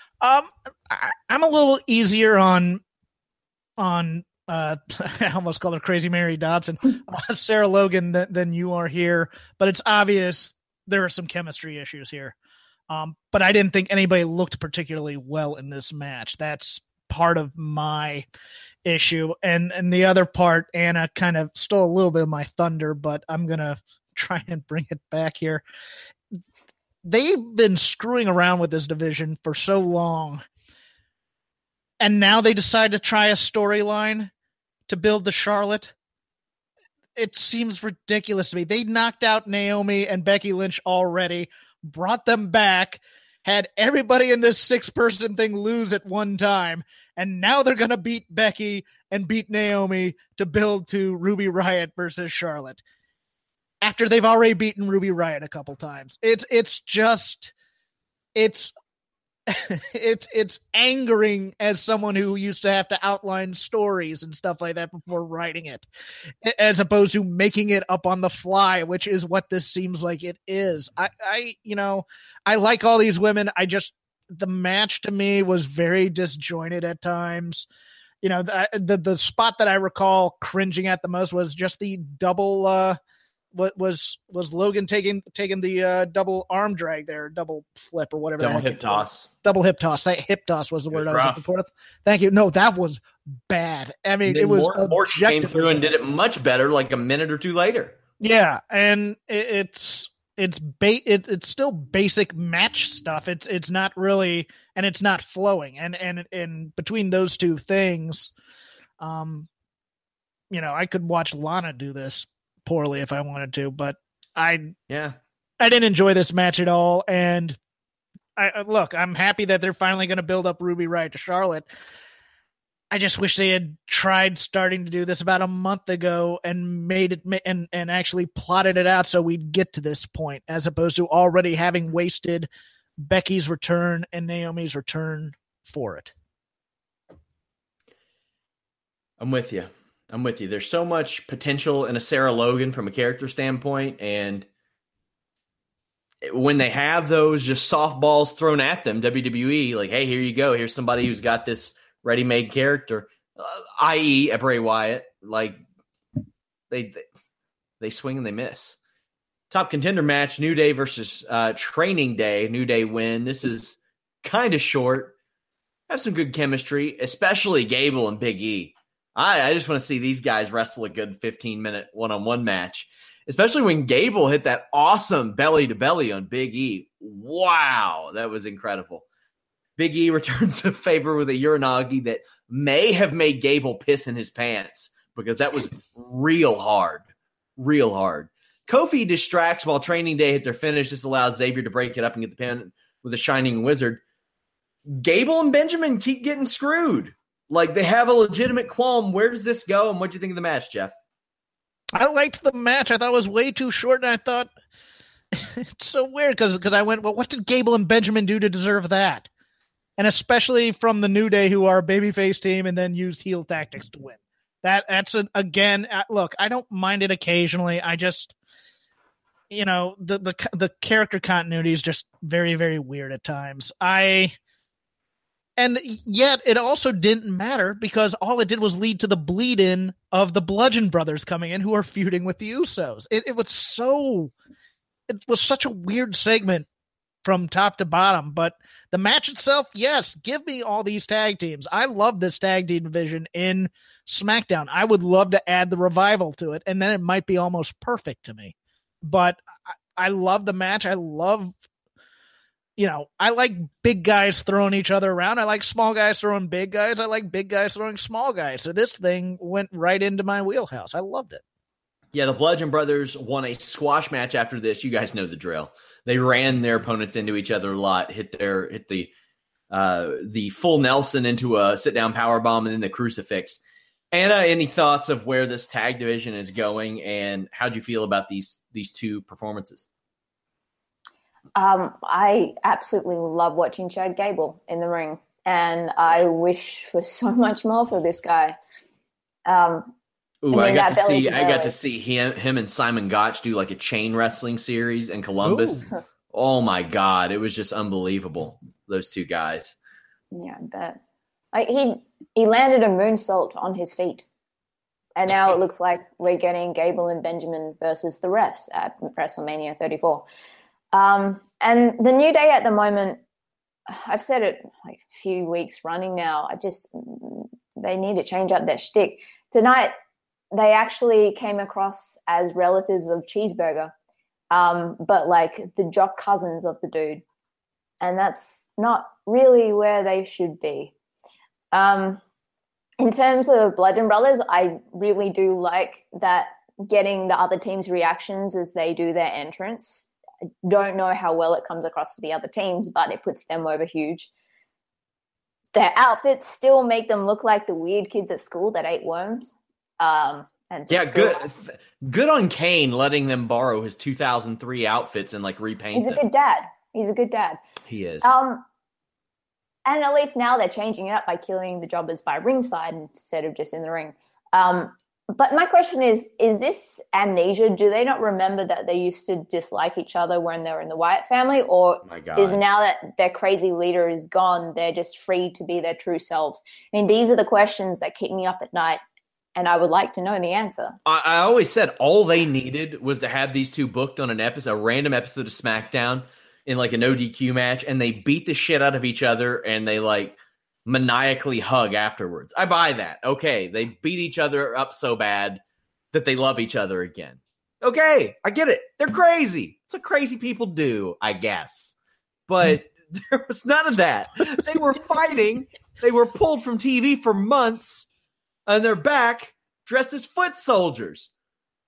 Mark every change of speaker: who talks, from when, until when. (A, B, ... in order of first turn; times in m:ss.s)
0:00.2-0:02.8 A
0:03.8-0:12.4 A
0:12.9-0:18.3 A
0:18.8-0:25.6 A
0:27.0-0:30.4 A
0:32.0-0:34.3 A
0:34.9-0:35.9 A
0:37.2-0:52.8 A
0:53.8-0:57.5 A
0:58.4-0:58.7 A
0:59.5-1:05.9 A
1:06.4-1:17.7 A
1:18.2-1:23.0 A
1:23.5-1:35.9 A
1:28.4-1:29.3 B
1:30.9-1:31.4 B
1:34.2-1:38.0 B
1:38.2-1:48.3 A
1:49.0-1:49.5 A
1:50.5-1:54.7 A
1:54.9-1:55.2 B
1:55.6-1:57.6 A
1:58.4-2:01.7 A
2:02.9-2:12.5 A
2:13.0-2:16.1 A
2:19.2-2:24.5 B
2:26.2-2:35.6 B
2:36.7-2:37.0 B
2:37.8-2:38.8 B
2:39.5-2:45.1 B
2:45.9-2:59.0 B
2:59.8-3:07.0 B
3:07.6-3:14.0 B
3:14.9-3:20.9 B
3:22.0-3:24.5 A
3:25.3-3:29.3 A
3:30.0-3:38.4 A
3:39.5-3:44.4 A
3:45.6-3:54.3 A
3:55.1-3:56.7 A
3:57.2-4:09.4 A
4:10.0-4:11.6 A
4:12.8-4:21.4 A
4:22.1-4:29.1 B
4:29.7-4:33.6 B
4:34.1-4:39.9 B
4:41.6-4:48.6 C
4:49.5-4:49.9 C
4:50.4-4:59.8 B
4:50.5-4:51.7 C
5:00.3-5:01.0 C
5:01.5-5:04.3 C
5:05.2-5:10.3 C
5:10.9-5:13.2 C
5:13.9-5:19.9 C
5:20.5-5:23.9 C
5:24.5-5:27.2 C
5:28.0-5:30.9 C
5:31.7-5:32.2 C
5:33.0-5:40.1 C
5:40.6-5:44.3 C
5:45.7-5:51.4 C
5:50.9-5:56.2 B
5:56.0-5:57.6 C
5:57.9-5:58.3 B
5:58.2-5:58.6 C
5:59.8-6:19.0 C
6:12.0-6:12.6 B
6:19.6-6:21.0 C
6:21.1-6:41.9 B
6:42.5-6:48.1 B
6:48.7-6:51.3 B